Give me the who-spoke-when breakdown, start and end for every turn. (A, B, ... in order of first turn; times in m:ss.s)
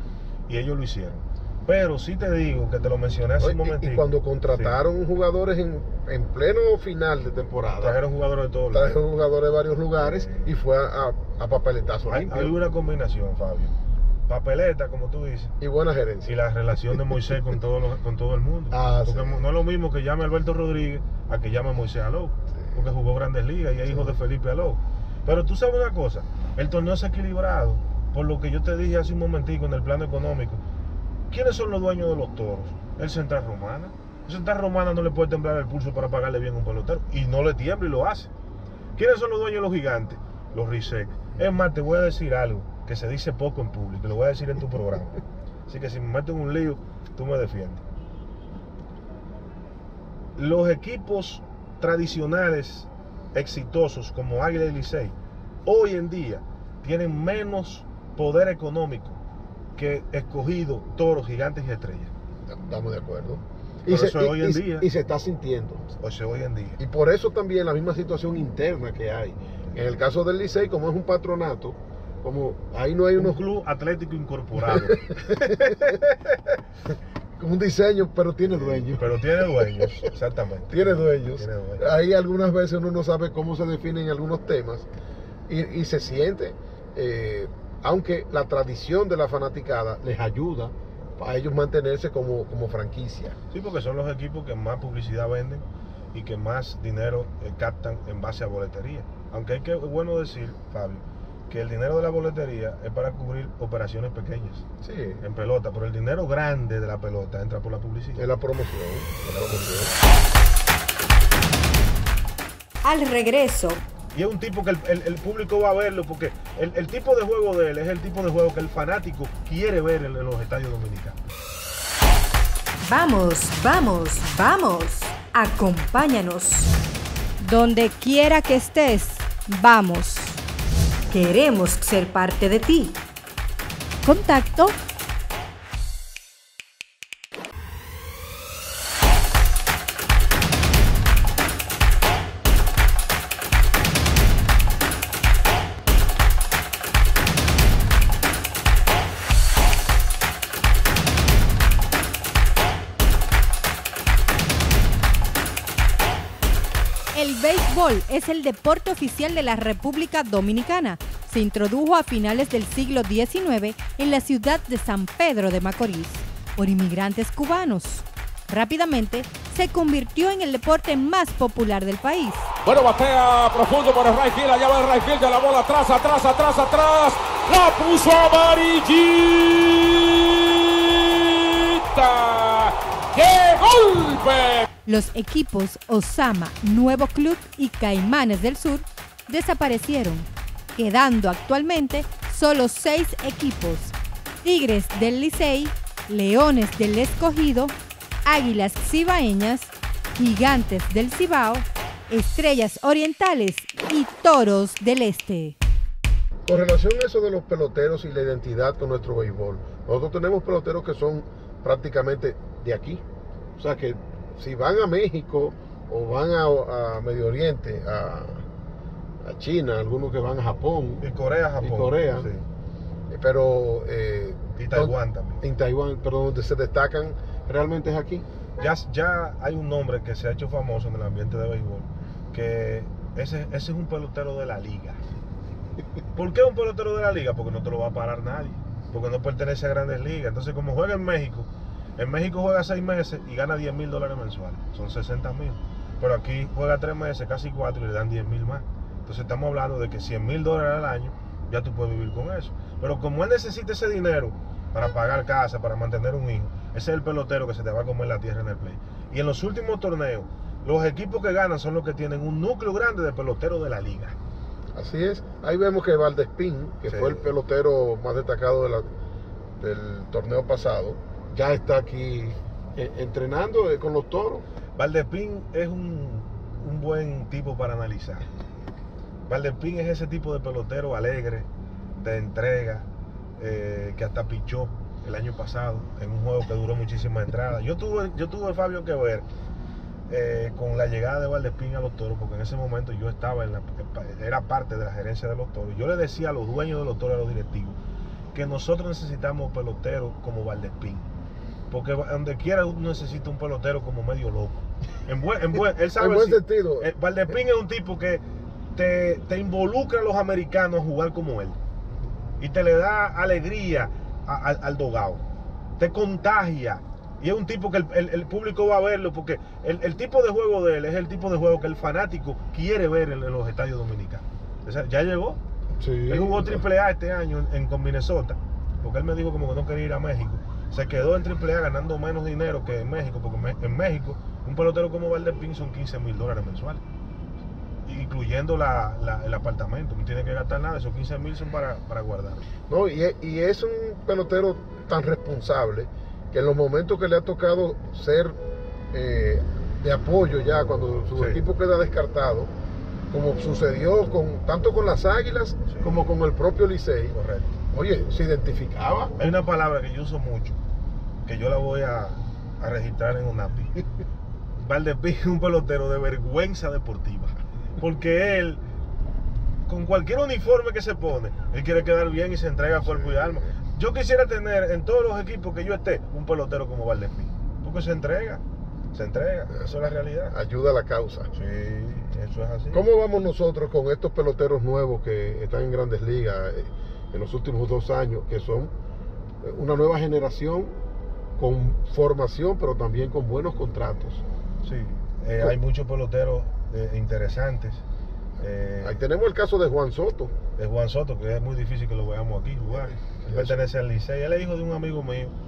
0:00.5-0:04.8 A
0:03.4-0:08.0 B
0:07.8-0:09.0 A
0:08.7-0:12.6 B
0:10.0-0:10.5 A
0:12.1-0:13.7 A
0:14.3-0:15.6 A
0:15.6-0:16.9 B
0:16.2-0:30.6 A
0:18.7-0:19.5 B
0:22.5-0:22.8 B
0:31.3-0:38.3 A
0:39.0-0:47.8 A
0:50.4-0:59.2 A
0:59.8-1:02.1 A
1:02.5-1:05.9 B
1:03.9-1:04.9 A
1:06.0-1:06.8 A
1:06.8-1:13.4 B
1:13.2-1:16.6 A
1:14.6-1:16.0 B
1:17.4-1:20.1 B
1:18.5-1:21.9 A
1:20.7-1:24.9 B
1:25.5-1:33.4 B
1:33.5-1:44.7 A
1:44.8-1:45.2 B
1:45.2-1:48.3 A
1:48.2-1:49.9 B
1:49.2-1:50.0 A
1:52.8-1:53.8 C
1:54.1-2:01.2 A
2:02.8-2:06.7 C
2:07.4-2:10.4 C
2:11.1-2:13.0 C
2:14.0-2:14.8 C
2:37.1-2:52.5 C
2:52.7-3:04.7 D
3:04.9-3:25.6 C
3:26.5-3:33.0 B
3:33.6-3:38.5 B
3:39.2-3:41.0 B
3:41.0-3:42.4 A
3:41.6-3:42.3 B
3:43.1-3:48.3 B
3:44.6-3:45.4 A
3:48.6-3:55.0 A
3:56.1-4:24.2 A
4:24.8-4:28.9 B
4:26.9-4:27.3 A
4:29.6-4:34.4 B
4:34.8-4:38.2 A
4:39.3-4:49.3 A
4:50.1-4:57.8 A
4:58.3-5:01.1 A
5:01.7-5:08.2 A
5:05.9-5:06.9 B
5:08.7-5:11.6 A
5:12.4-5:15.2 A
5:15.8-5:25.4 A
5:25.8-5:26.6 B
5:26.1-5:36.8 A
5:37.9-5:42.5 A
5:42.7-5:48.4 B
5:48.9-5:52.5 B
5:51.2-5:51.4 A
5:53.1-5:57.2 B
5:55.7-5:56.1 A
5:57.1-5:57.6 A
5:57.7-5:59.2 B
5:59.2-6:00.6 A
6:01.2-6:03.8 A
6:04.6-6:08.6 A
6:09.7-6:18.4 A
6:12.8-6:13.5 B
6:18.9-6:20.4 A
6:20.3-6:21.3 B
6:21.3-6:22.8 A
6:22.7-6:28.7 B
6:29.4-6:30.7 B
6:31.4-6:34.2 B
6:34.6-6:37.8 A
6:38.4-6:39.0 A
6:38.8-6:40.4 B
6:40.6-6:45.3 A
6:43.0-6:43.6 B